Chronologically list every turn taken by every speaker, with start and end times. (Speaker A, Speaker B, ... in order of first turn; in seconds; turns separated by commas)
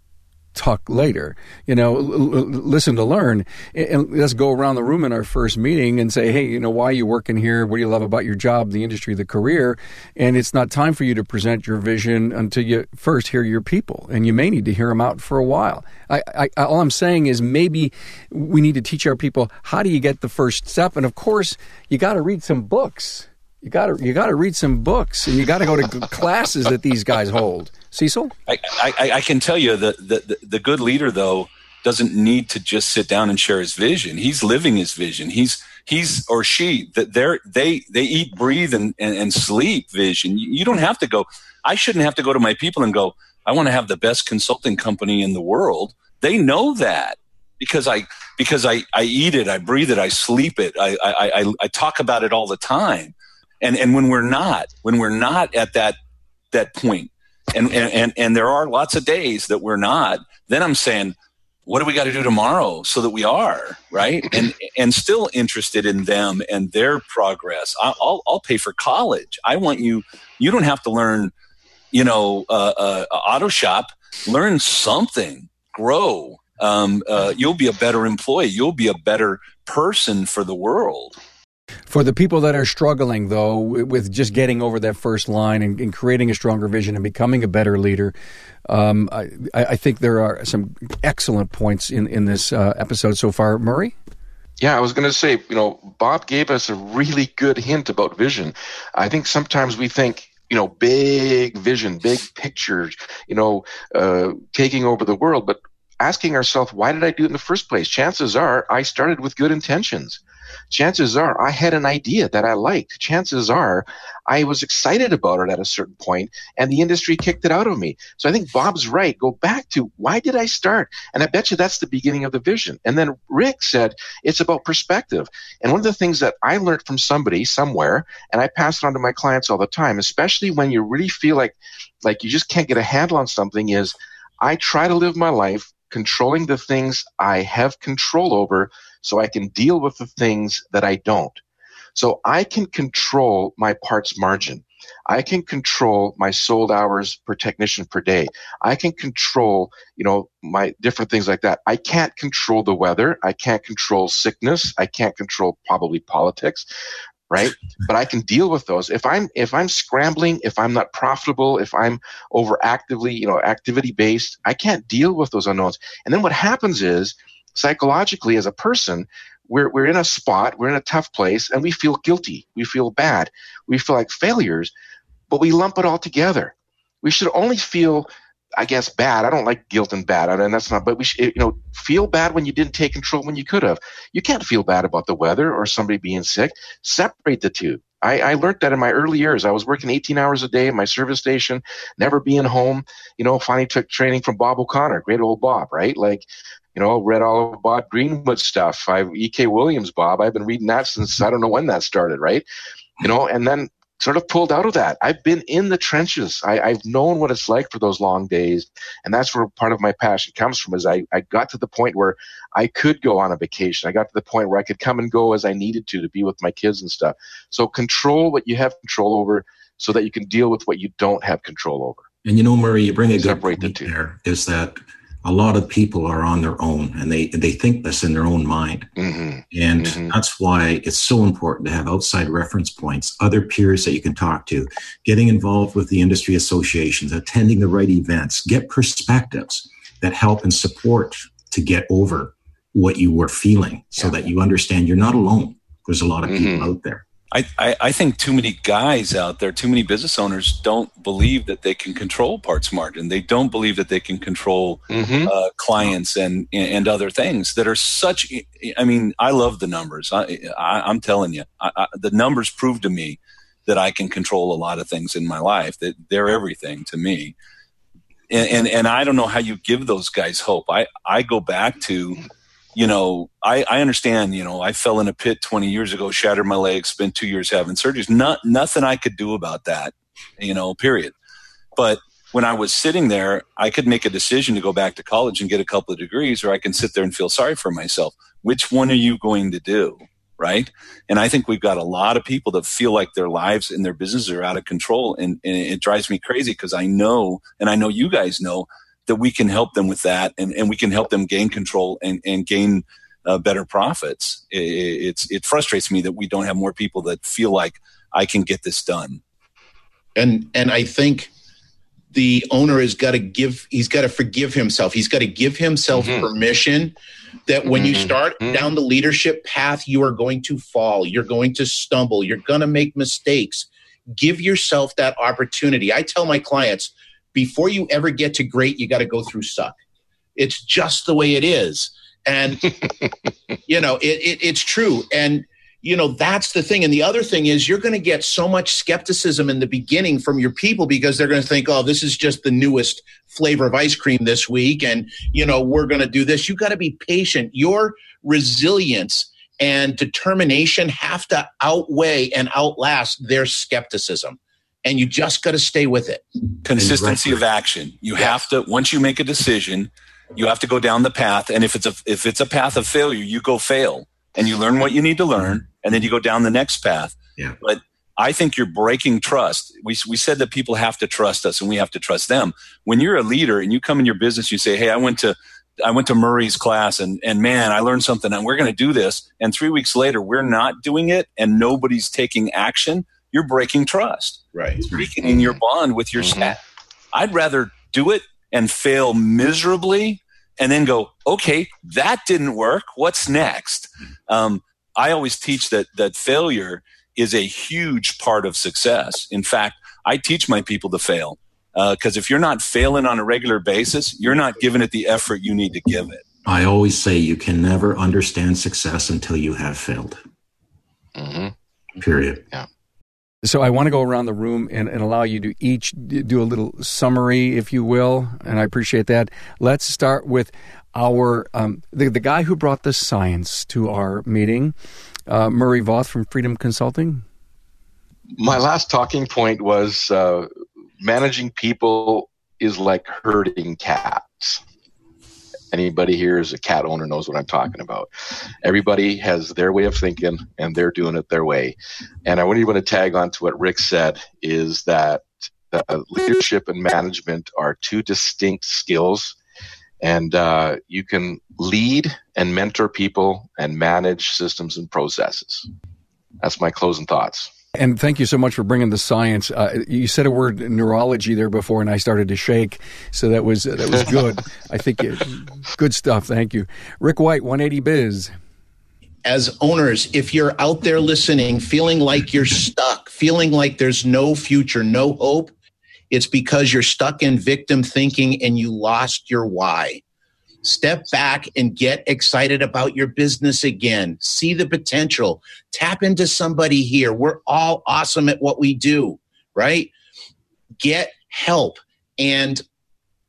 Speaker A: 0.5-28.3, Speaker B: 28.5-56.0, Speaker B: 56.5-61.1, Speaker B: 61.6-71.3, Speaker B: 71.9-81.2, Speaker A: 81.9-88.1, Speaker A: 88.7-93.9, Speaker C: 94.6-110.2, Speaker C: 110.7-141.4, Speaker C: 141.9-156.7, Speaker C: 157.3-174.7, Speaker C: 175.3-202.4, Speaker C: 203.0-222.1, Speaker D: 222.2-228.9, Speaker C: 223.2-223.9, Speaker C: 229.0-230.1, Speaker D: 229.5-247.0, Speaker C: 246.3-246.7, Speaker B: 247.3-267.3, Speaker C: 254.9-255.3, Speaker B: 268.3-272.2, Speaker B: 272.7-281.1, Speaker B: 281.8-309.2, Speaker E: 310.1-311.3, Speaker E: 312.1-316.9, Speaker C: 315.9-316.3, Speaker E: 317.5-329.7, Speaker C: 317.6-318.7, Speaker E: 330.4-332.7, Speaker E: 333.7-356.2, Speaker B: 356.6-386.6, Speaker D: 356.8-357.4, Speaker E: 384.5-385.4, Speaker C: 386.2-386.5, Speaker B: 387.1-406.2, Speaker D: 406.4-410.2, Speaker C: 411.1-411.5, Speaker D: 411.9-412.4, Speaker A: 413.4-424.7, Speaker A: 425.3-427.2, Speaker C: 428.4-430.5, Speaker C: 431.0-434.6, Speaker C: 435.7-438.1, Speaker C: 438.6-449.4, Speaker C: 450.0-455.7, Speaker C: 456.4-457.5, Speaker A: 457.7-468.3, Speaker E: 469.2-475.5, Speaker E: 476.1-480.0, Speaker E: 480.6-489.9, Speaker E: 490.8-492.6